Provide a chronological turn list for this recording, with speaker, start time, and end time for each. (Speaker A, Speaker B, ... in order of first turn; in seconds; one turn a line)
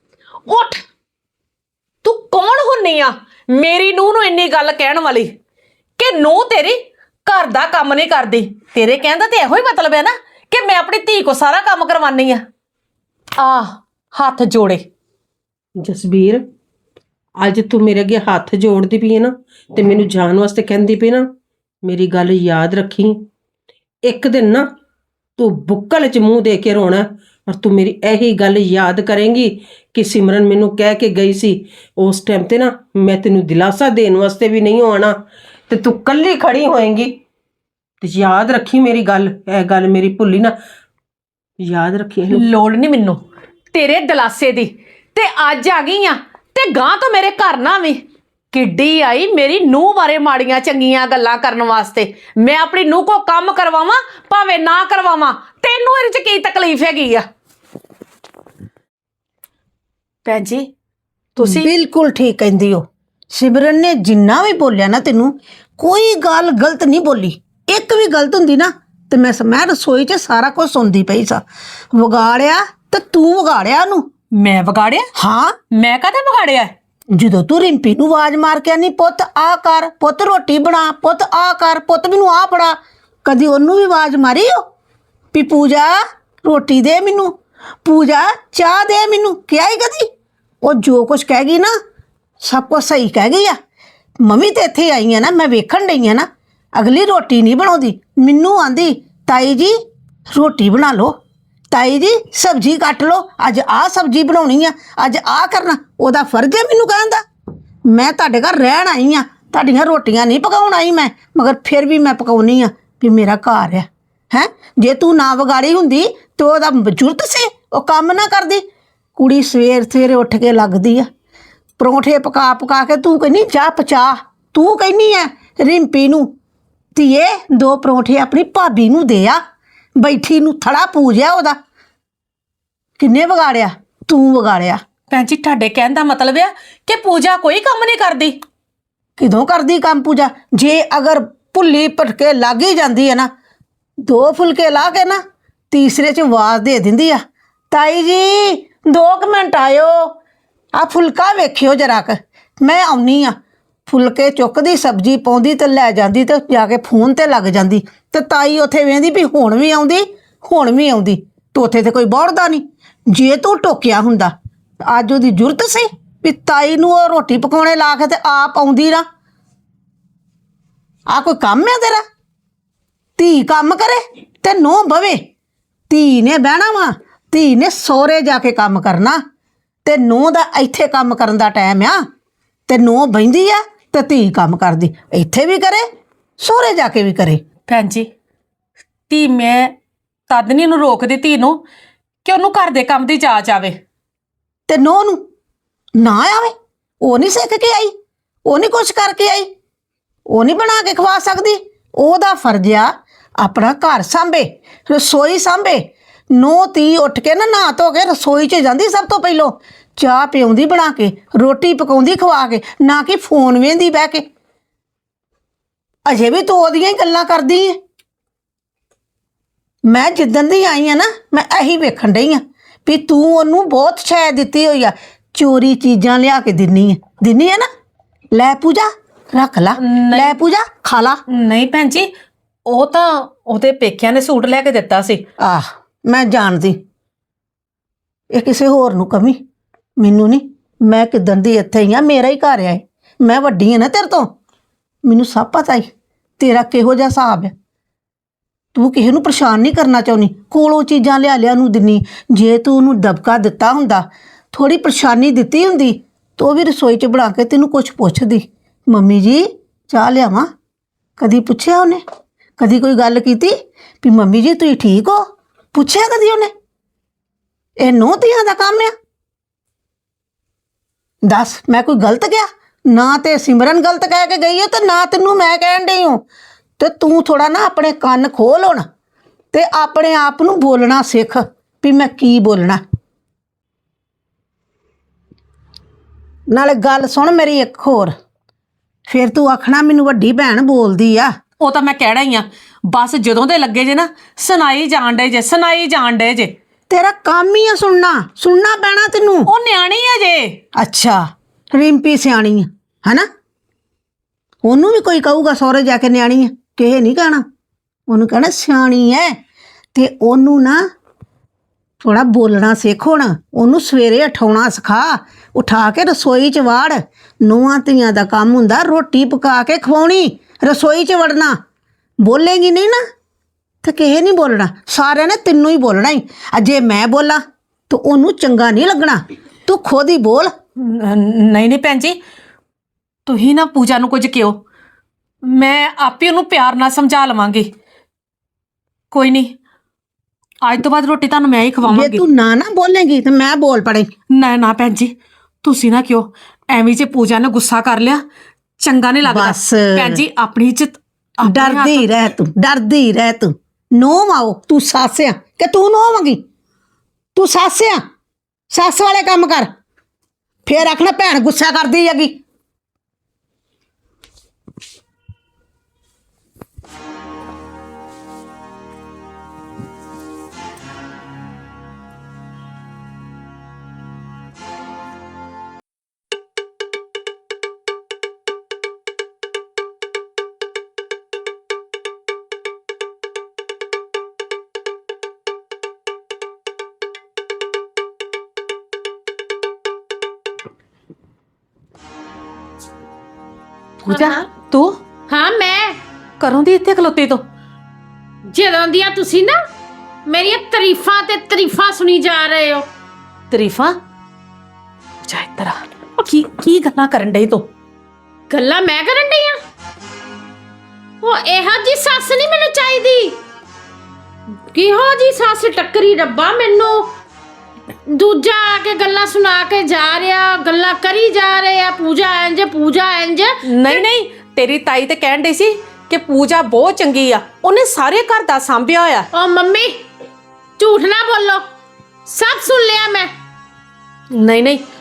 Speaker A: 0.5-0.8
Speaker A: 2.0-5.4
Speaker A: 6.0-12.4
Speaker A: 13.4-14.8
Speaker B: 15.8-16.4
Speaker B: 17.4-21.3
Speaker B: 21.8-23.3
Speaker B: 24.0-24.7
Speaker B: 25.4-35.2
Speaker B: 35.7-37.1
Speaker B: 38.0-40.5
Speaker B: 41.6-42.4
Speaker A: 42.3-43.2
Speaker A: 43.7-57.2
Speaker A: 60.2-60.7
Speaker A: 61.4-61.7
Speaker C: 61.4-74.1
Speaker A: 74.3-75.1
Speaker C: 75.2-75.6
Speaker A: 75.7-76.7
Speaker C: 77.1-84.7
Speaker C: 85.3-90.1
Speaker C: 90.6-91.8
Speaker C: 92.4-93.6
Speaker C: 94.2-99.8
Speaker C: 100.3-101.2
Speaker C: 101.7-107.2
Speaker C: 107.9-118.6
Speaker C: 119.2-121.1
Speaker C: 121.8-126.3
Speaker C: 127.0-129.4
Speaker C: 130.0-131.6
Speaker C: 133.0-134.8
Speaker A: 135.1-138.4
Speaker C: 139.2-143.3
Speaker C: 144.1-150.1
Speaker C: 150.8-153.4
Speaker C: 153.9-164.3
Speaker C: 164.8-169.1
Speaker C: 171.1-172.0
Speaker C: 173.2-175.2
Speaker C: 175.9-179.2
Speaker C: 179.8-182.1
Speaker C: 182.7-185.9
Speaker C: 186.4-187.4
Speaker A: 187.7-188.1
Speaker A: 189.1-189.7
Speaker A: 190.3-191.6
Speaker A: 192.2-193.8
Speaker C: 194.7-195.2
Speaker C: 196.0-197.9
Speaker C: 198.5-199.5
Speaker C: 200.3-214.2
Speaker C: 216.1-217.8
Speaker C: 219.9-227.7
Speaker C: 228.3-231.2
Speaker A: 229.8-230.4
Speaker A: 231.3-232.1
Speaker A: 232.7-235.2
Speaker C: 235.4-236.8
Speaker C: 238.3-239.4
Speaker C: 240.0-244.3
Speaker C: 245.0-247.5
Speaker C: 248.8-260.5
Speaker C: 261.2-262.0
Speaker C: 262.6-266.5
Speaker C: 267.8-268.9
Speaker C: 271.2-276.2
Speaker C: 276.8-278.9
Speaker C: 279.5-282.8
Speaker C: 286.5-288.1
Speaker C: 289.1-291.3
Speaker A: 291.6-296.5
Speaker C: 296.9-299.5
Speaker A: 299.5-300.6
Speaker C: 300.8-303.3
Speaker C: 304.6-307.4
Speaker C: 308.1-309.4
Speaker C: 309.9-310.8
Speaker C: 312.0-321.6
Speaker C: 322.2-323.0
Speaker C: 323.8-330.5
Speaker A: 330.8-332.2
Speaker A: 333.3-334.6
Speaker A: 335.4-337.7
Speaker A: 339.1-339.5
Speaker A: 340.6-342.2
Speaker C: 341.9-344.1
Speaker A: 344.3-348.2
Speaker A: 348.8-352.1
Speaker C: 349.2-350.2
Speaker C: 351.4-356.4
Speaker C: 357.4-358.0
Speaker C: 358.7-359.7
Speaker C: 360.7-362.4
Speaker A: 394.1-395.0
Speaker D: 394.1-394.4
Speaker D: 395.3-396.0
Speaker A: 396.4-397.4
Speaker D: 398.5-399.6
Speaker D: 400.3-402.9
Speaker A: 403.5-404.0
Speaker A: 405.2-407.7
Speaker D: 408.5-409.6
Speaker D: 411.2-413.4
Speaker D: 414.7-417.1
Speaker D: 418.1-424.0
Speaker A: 423.6-429.3
Speaker D: 429.3-430.0
Speaker D: 430.8-431.7
Speaker D: 432.3-433.3
Speaker A: 434.3-434.8